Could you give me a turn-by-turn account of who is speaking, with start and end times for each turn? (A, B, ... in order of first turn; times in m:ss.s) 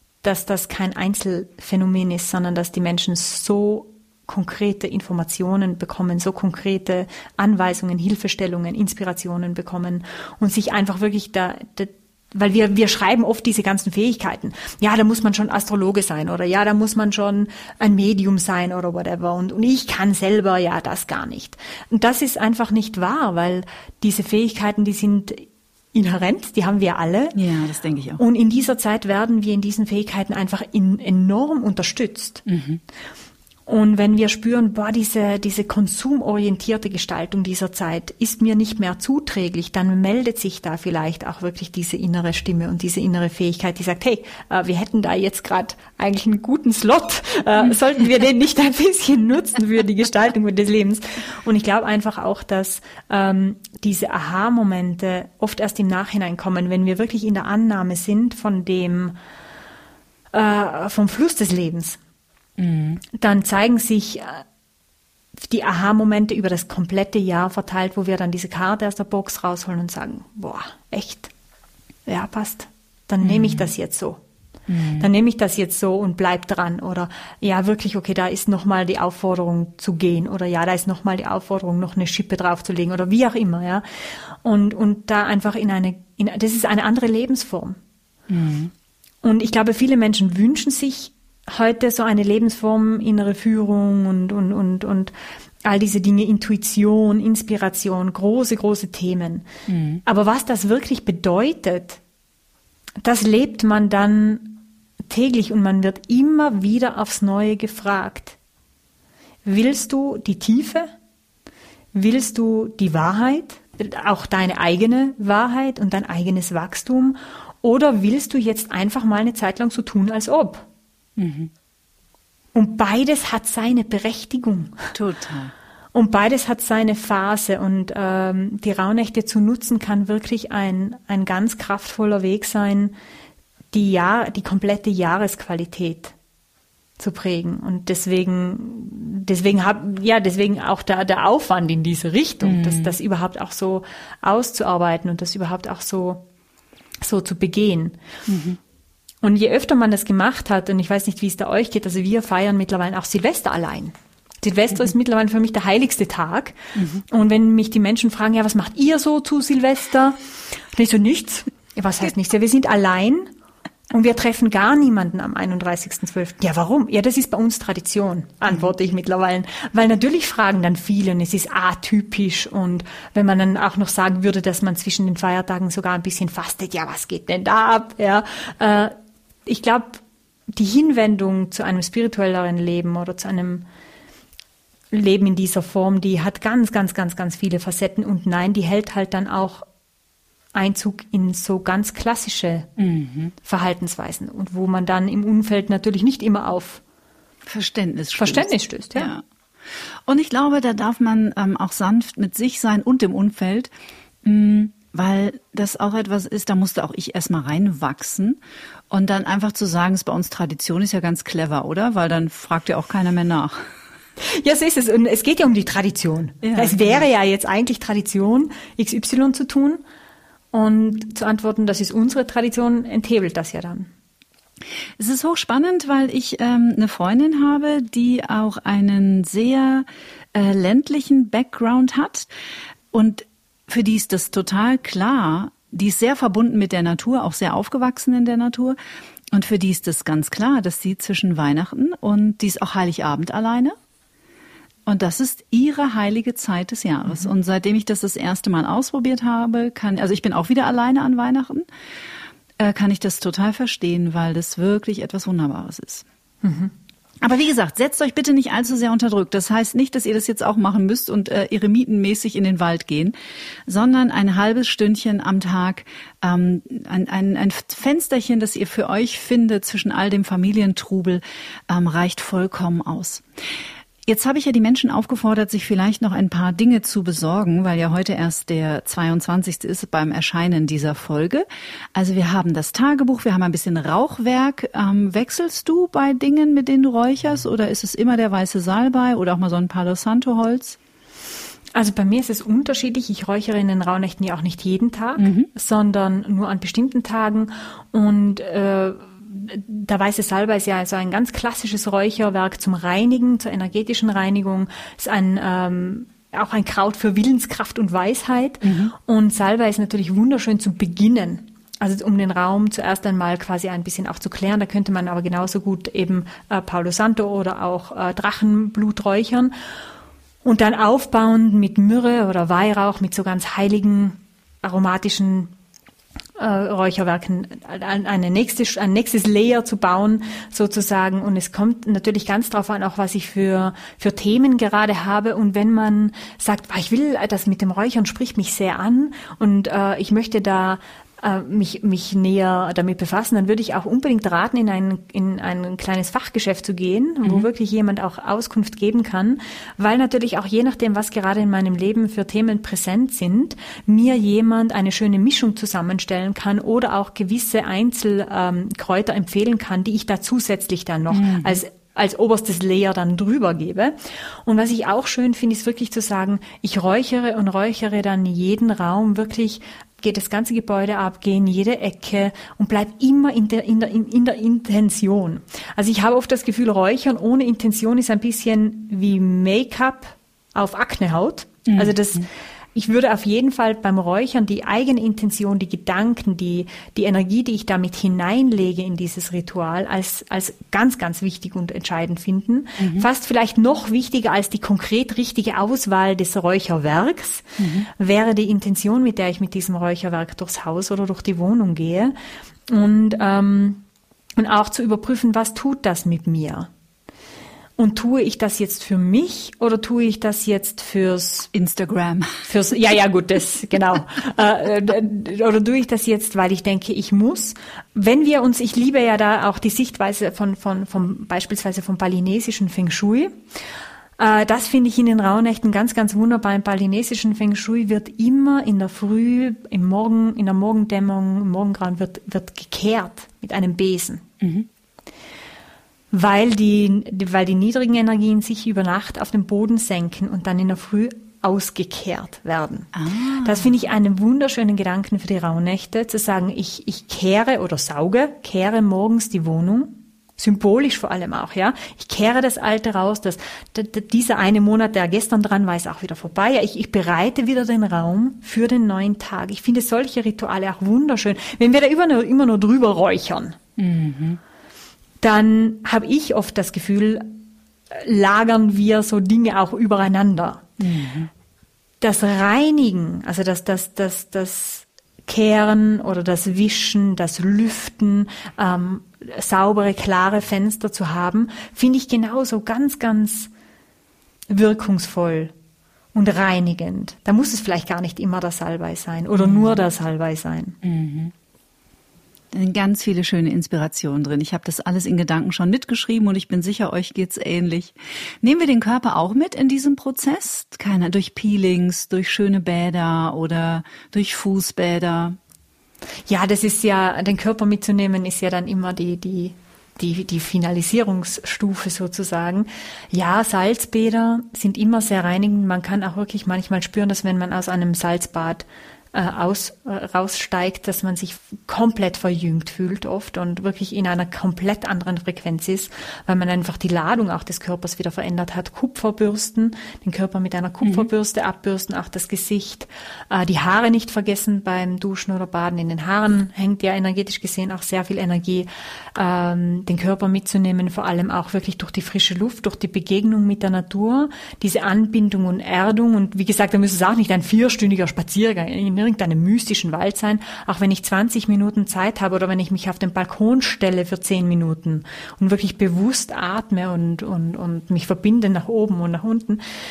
0:00.2-0:27.4 A
0:27.4-0:28.2 B
0:28.2-0:32.4 A
0:32.5-0:32.8 B
0:33.7-0:59.2 A
1:00.3-1:02.0 A
1:02.6-1:03.0 B
1:03.1-1:04.4 A
1:05.4-1:11.3 A
1:12.1-1:14.2 A
1:13.2-1:13.7 B
1:14.7-1:15.1 B
1:15.0-1:23.8 A
1:24.4-1:27.8 A
1:28.3-1:28.7 B
1:29.2-1:35.1 A
1:35.6-1:39.4 A
1:39.7-1:40.0 B
1:40.0-1:42.0 A
1:43.0-1:48.4 A
1:49.4-1:50.9 A
1:51.9-2:00.7 A
2:01.2-2:01.5 B
2:02.6-2:04.9 A
2:04.9-2:05.5 B
2:05.9-2:13.0 A
2:13.7-2:16.2 A
2:17.0-2:26.2 A
2:22.4-2:23.0 B
2:27.0-2:28.0 A
2:28.3-2:28.6 B
2:29.2-2:40.2 A
2:36.8-2:37.0 B
2:40.7-2:43.3 A
2:43.9-2:58.9 A
2:59.5-3:00.0 A
3:00.5-3:03.7 A
3:04.9-3:09.7 A
3:10.6-3:12.7 A
3:12.8-3:13.3 B
3:13.4-3:16.8 A
3:17.5-3:19.2 B
3:18.2-3:19.1 A
3:20.1-3:23.7 B
3:24.2-3:28.4 B
3:28.9-3:33.6 B
3:34.2-3:39.8 A
3:36.4-3:37.0 B
3:40.5-3:43.9 A
3:45.0-3:52.3 B
3:52.9-3:58.8 B
3:59.3-4:03.8 B
4:04.9-4:11.7 B
4:12.6-4:16.0 B
4:16.4-4:16.7 A
4:17.2-4:23.1 B
4:23.7-4:33.2 B
4:34.1-4:50.8 B
4:51.8-5:19.5 A
4:55.2-4:55.5 B
5:08.6-5:08.9 B
5:20.4-5:25.5 A
5:26.4-6:04.0 A
6:01.1-6:01.6 B
6:04.5-6:42.1 A
6:21.7-6:22.0 B
6:32.8-6:33.1 B
6:37.6-6:37.9 B
6:42.7-6:43.8 A
6:44.4-6:46.7 A
6:47.8-6:51.5 A
6:51.5-6:52.5 B
6:52.4-7:03.4 A
7:04.2-7:14.2 A
7:14.4-7:14.7 B
7:16.1-7:22.9 A
7:23.0-7:23.7 B
7:23.4-7:43.6 A
7:43.8-7:44.4 B
7:45.2-7:50.7 A
7:50.8-7:51.3 B
7:52.0-8:03.5 A
8:04.5-8:05.5 A
8:06.1-8:10.8 A
8:09.4-8:09.8 B
8:10.8-8:11.3 B
8:12.5-8:25.4 B
8:26.3-9:19.6 A
8:50.8-8:51.1 B